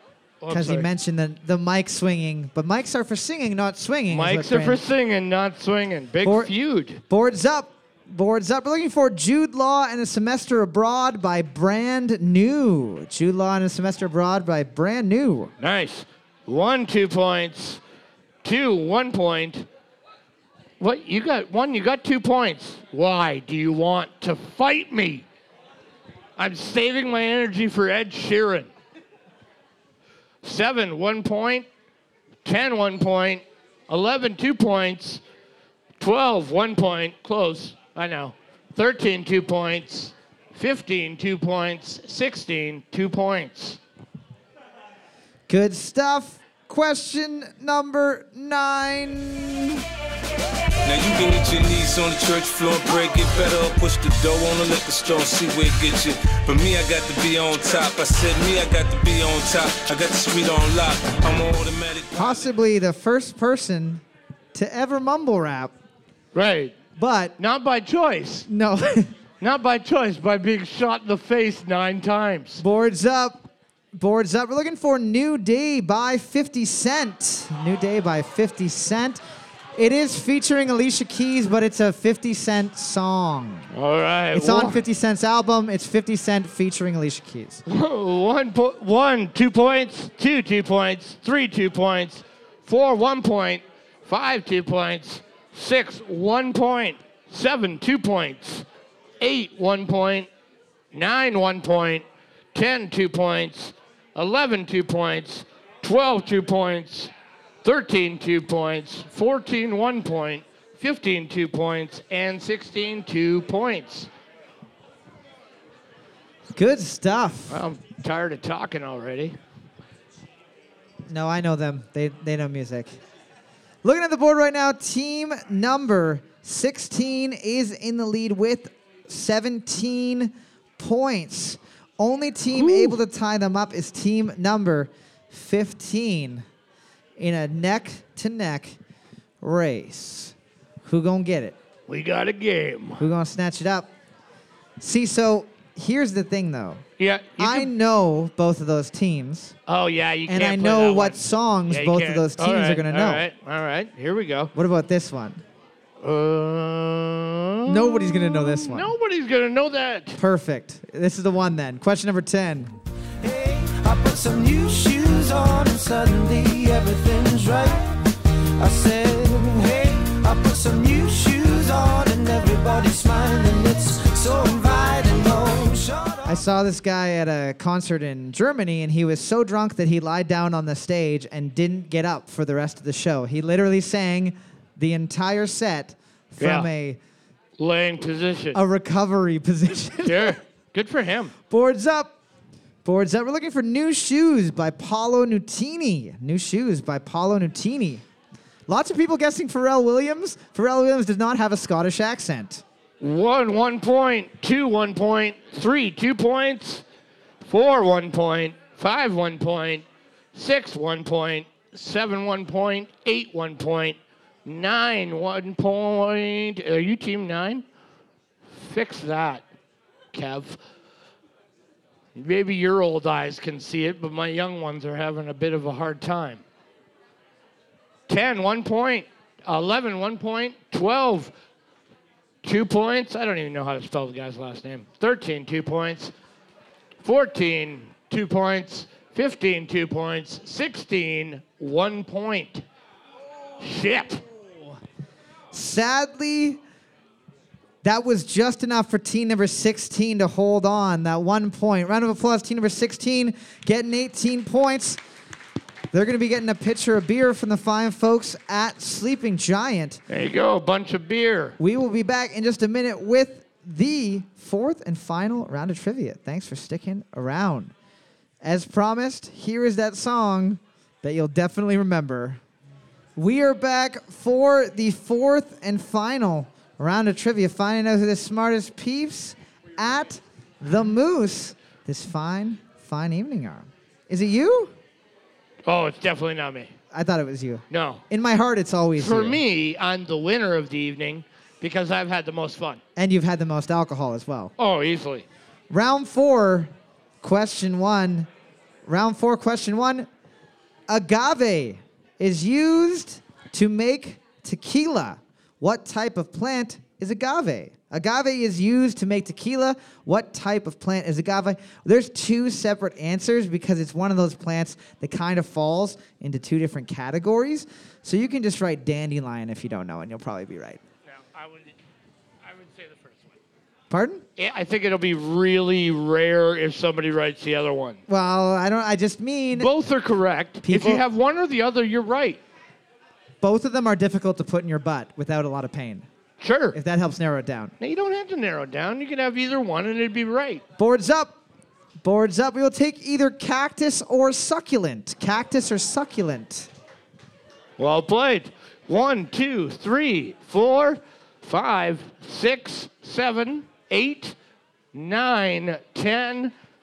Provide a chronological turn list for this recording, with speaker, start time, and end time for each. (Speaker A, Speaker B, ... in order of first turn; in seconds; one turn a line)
Speaker A: 0.4-0.9
Speaker B: 0.5-4.8
Speaker A: 4.1-7.0
Speaker B: 6.2-6.5
Speaker B: 7.1-15.5
Speaker A: 15.6-17.8
Speaker A: 18.4-19.7
Speaker A: 20.8-25.3
Speaker A: 26.4-28.7
Speaker A: 30.4-31.7
Speaker A: 32.5-35.2
Speaker A: 36.0-43.8
Speaker B: 45.5-49.8
Speaker C: 50.8-62.5
Speaker B: 62.1-64.0
Speaker B: 64.5-65.7
Speaker A: 66.3-66.8
Speaker B: 67.0-67.4
Speaker A: 67.4-68.5
Speaker B: 68.5-69.1
Speaker A: 69.4-72.6
Speaker B: 72.6-79.2
Speaker B: 79.8-83.7
Speaker A: 83.7-84.8
Speaker B: 84.3-87.6
Speaker A: 87.7-98.7
Speaker A: 99.2-100.3
Speaker A: 100.9-107.1
Speaker A: 107.6-114.1
Speaker B: 116.5-117.6
Speaker A: 117.5-119.4
Speaker B: 121.1-123.0
Speaker B: 123.8-136.4
Speaker A: 132.5-133.0
Speaker B: 137.2-138.8
Speaker B: 139.4-141.6
Speaker A: 141.9-143.0
Speaker B: 143.0-143.9
Speaker B: 144.8-146.8
Speaker A: 147.0-147.7
Speaker B: 147.4-149.6
Speaker A: 149.7-154.5
Speaker B: 150.3-153.2
Speaker B: 154.5-155.4
Speaker A: 156.0-160.2
Speaker B: 157.7-158.9
Speaker B: 160.2-162.7
Speaker D: 163.2-167.8
Speaker D: 168.6-176.4
Speaker B: 176.3-187.0
Speaker A: 186.4-186.7
Speaker A: 187.6-188.6
Speaker B: 188.5-190.4
Speaker A: 190.0-191.3
Speaker B: 191.5-192.2
Speaker B: 192.8-198.0
Speaker B: 198.7-202.6
Speaker A: 203.0-206.8
Speaker A: 207.4-217.7
Speaker A: 218.5-219.4
Speaker A: 220.1-220.6
Speaker A: 222.2-226.4
Speaker A: 228.1-231.3
Speaker A: 232.4-236.1
Speaker A: 237.0-242.7
Speaker A: 243.6-244.2
Speaker B: 245.5-246.6
Speaker B: 247.8-255.0
Speaker B: 255.9-260.0
Speaker A: 260.1-261.6
Speaker B: 261.6-267.7
Speaker B: 268.4-272.4
Speaker B: 273.2-284.7
Speaker A: 285.7-286.7
Speaker B: 286.9-289.4
Speaker A: 287.7-288.0
Speaker A: 289.0-292.8
Speaker B: 293.0-294.5
Speaker A: 294.6-295.3
Speaker B: 295.7-298.3
Speaker B: 298.9-300.1
Speaker B: 300.9-320.8
Speaker A: 321.1-321.7
Speaker A: 322.4-323.4
Speaker B: 323.9-324.2
Speaker A: 324.4-328.0
Speaker B: 328.1-329.7
Speaker A: 329.5-332.4
Speaker B: 330.6-331.0
Speaker B: 333.4-336.1
Speaker A: 336.4-336.8
Speaker B: 336.7-337.7
Speaker A: 337.8-340.6
Speaker B: 340.8-341.4
Speaker B: 342.0-346.7
Speaker A: 347.8-354.4
Speaker A: 354.9-356.5